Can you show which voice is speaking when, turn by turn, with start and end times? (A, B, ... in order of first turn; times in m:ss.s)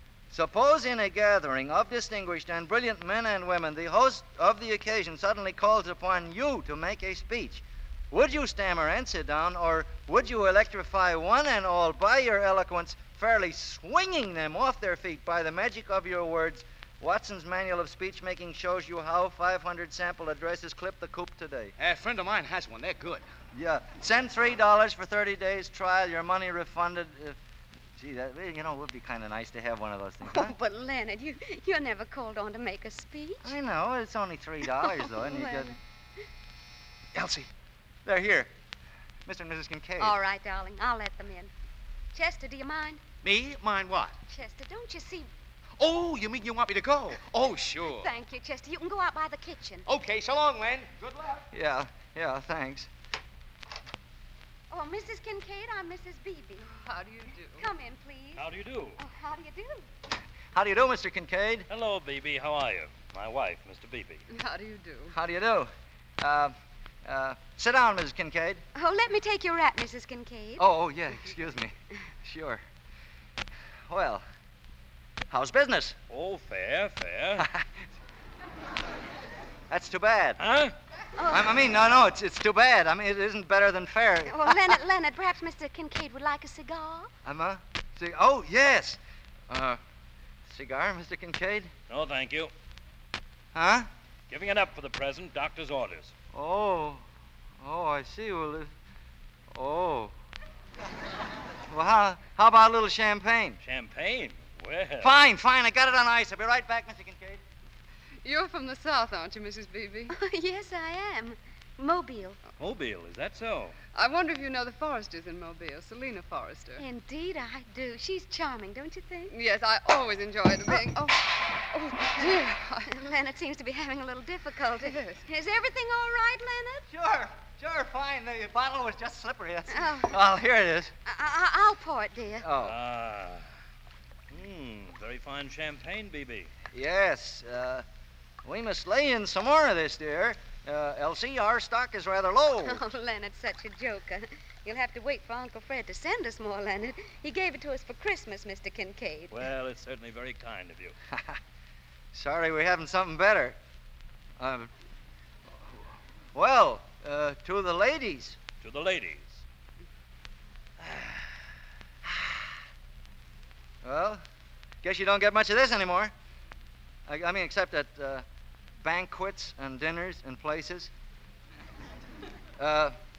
0:00.3-0:21.7 A
0:21.8-0:23.2 B
0:23.5-0:27.4 A
0:28.0-0:30.5 A
0:30.3-0:33.5 C
0:33.4-0:35.7 A
0:34.7-0:35.8 C
0:37.1-0:37.5 B
0:38.0-0:38.5 A
0:39.2-0:40.2 A
0:40.0-0:41.5 C
0:42.1-0:43.0 C
0:43.2-0:44.1 B
0:44.3-0:45.3 C
0:45.8-0:48.1 B
0:47.8-0:49.8 C
0:49.8-0:51.4 B
0:51.5-0:52.9 A
0:54.7-0:56.6 C
0:56.6-0:57.7 D
0:57.6-0:58.4 C
0:58.4-0:59.0 E
0:59.0-0:59.8 C
1:00.5-1:01.7 A
1:01.7-1:04.2 E
1:04.3-1:05.1 D
1:05.1-1:06.5 A
1:07.0-1:08.6 A
1:08.7-1:10.6 C
1:10.6-1:12.6 A
1:13.9-1:14.2 A
1:15.3-1:16.0 A
1:16.1-1:17.5 E
1:17.4-1:17.6 A
1:19.7-1:20.4 A
1:20.4-1:20.7 E
1:21.2-1:21.5 C
1:21.3-1:24.7 A
1:24.2-1:27.1 C
1:27.2-1:29.0 A
1:29.5-1:29.8 A
1:30.5-1:31.7 A
1:31.9-1:32.5 E
1:33.5-1:33.9 A
1:34.3-1:36.1 E
1:36.3-1:37.0 A
1:37.6-1:38.7 A
1:39.5-1:40.1 A
1:41.7-1:43.6 A
1:43.6-1:45.2 E
1:45.0-1:47.4 A
1:48.2-1:50.1 D
1:50.1-1:52.4 C
1:52.6-1:53.7 E
1:53.9-1:56.8 D
1:56.8-1:59.3 C
1:59.3-2:01.3 D
2:01.7-2:06.8 C
2:02.0-2:02.9 D
2:04.8-2:05.3 D
2:06.9-2:10.9 A
2:09.7-2:10.1 C
2:11.0-2:12.5 C
2:12.4-2:12.7 A
2:12.6-2:13.4 E
2:14.3-2:16.5 E
2:16.7-2:17.8 A
2:18.4-2:22.8 A
2:22.6-2:29.4 C
2:29.3-2:30.9 E
2:31.1-2:31.4 A
2:32.1-2:33.6 A
2:34.4-2:34.7 A
2:36.3-2:38.4 A
2:38.6-2:39.4 E
2:40.8-2:41.1 E
2:43.8-2:44.2 A
2:44.8-2:46.1 A
2:47.1-2:48.2 A
2:48.8-2:50.9 A
2:52.6-2:53.0 A